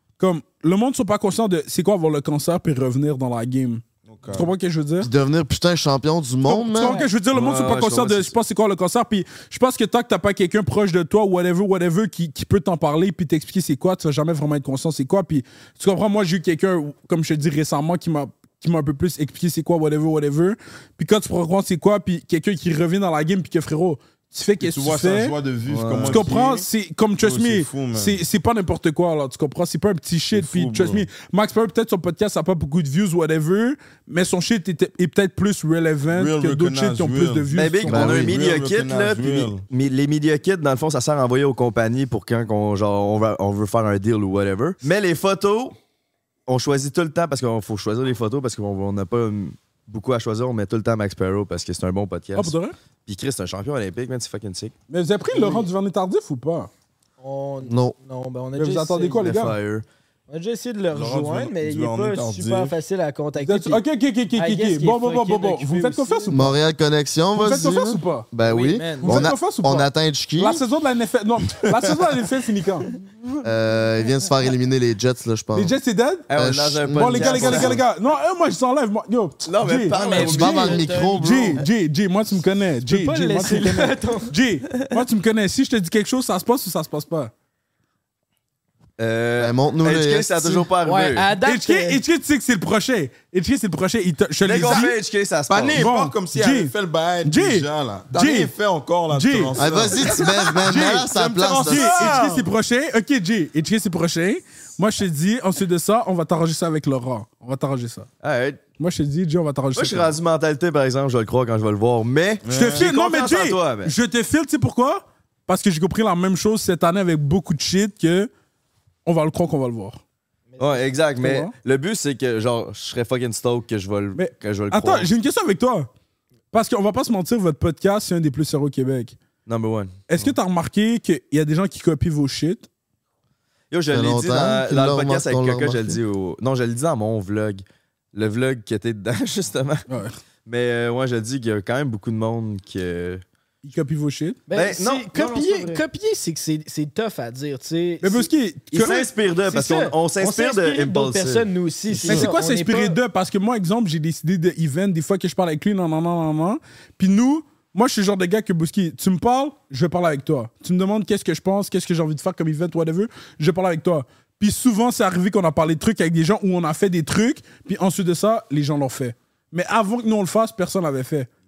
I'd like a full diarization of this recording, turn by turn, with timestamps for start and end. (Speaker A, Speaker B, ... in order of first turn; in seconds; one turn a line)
Speaker A: 0.2-5.1
Speaker B: 4.1-4.5
Speaker C: 5.0-7.0
Speaker A: 6.4-25.4
Speaker D: 6.8-7.1
Speaker E: 7.3-8.3
Speaker B: 24.6-26.7
Speaker E: 25.7-26.2
Speaker A: 26.1-38.2
Speaker B: 27.2-28.2
Speaker B: 30.3-31.1
Speaker B: 36.1-39.6
Speaker E: 37.5-45.7
Speaker E: 46.5-52.5
Speaker A: 52.4-52.8
Speaker E: 53.1-54.7
Speaker A: 54.9-56.7
Speaker D: 55.3-55.7
Speaker D: 57.2-59.3
Speaker C: 57.6-57.9
Speaker A: 58.6-59.6
Speaker E: 59.2-59.9
Speaker D: 60.3-63.8
Speaker B: 60.9-62.8
Speaker A: 63.4-66.5
Speaker D: 64.3-66.5
Speaker C: 66.3-70.6
Speaker A: 67.4-68.3
Speaker D: 68.4-69.3
Speaker A: 69.0-72.9
Speaker C: 73.4-75.7
Speaker A: 75.5-76.3
Speaker E: 76.3-77.8
Speaker C: 76.3-77.8
Speaker A: 76.9-80.7
Speaker E: 79.4-80.9
Speaker D: 79.9-81.5
Speaker C: 80.1-81.6
Speaker A: 81.2-87.3
Speaker D: 82.9-84.3
Speaker E: 89.0-91.3
Speaker C: 89.4-90.7
Speaker D: 90.8-92.0
Speaker A: 91.4-94.9
Speaker E: 94.4-95.9
Speaker B: 95.5-100.2
Speaker A: 95.7-96.7
Speaker A: 97.2-98.5
Speaker A: 99.1-99.5
Speaker C: 99.6-102.2
Speaker A: 100.5-108.1
Speaker B: 101.4-102.4
Speaker E: 108.2-108.6
Speaker A: 108.8-110.1
Speaker E: 109.7-113.9
Speaker B: 112.4-112.9
Speaker A: 112.5-118.3
Speaker A: 119.1-120.0
Speaker D: 120.5-120.9
Speaker E: 120.6-125.1
Speaker A: 121.2-121.5
Speaker A: 124.2-125.9
Speaker A: 126.5-129.2
Speaker E: 129.5-129.9
Speaker A: 130.1-132.7
Speaker E: 133.7-139.8
Speaker C: 133.9-136.0
Speaker A: 139.9-140.2
Speaker E: 140.4-143.2
Speaker A: 143.6-144.4
Speaker D: 144.5-148.3
Speaker E: 144.5-145.8
Speaker A: 148.0-149.1
Speaker E: 148.7-152.2
Speaker D: 149.5-153.0
Speaker A: 152.1-171.3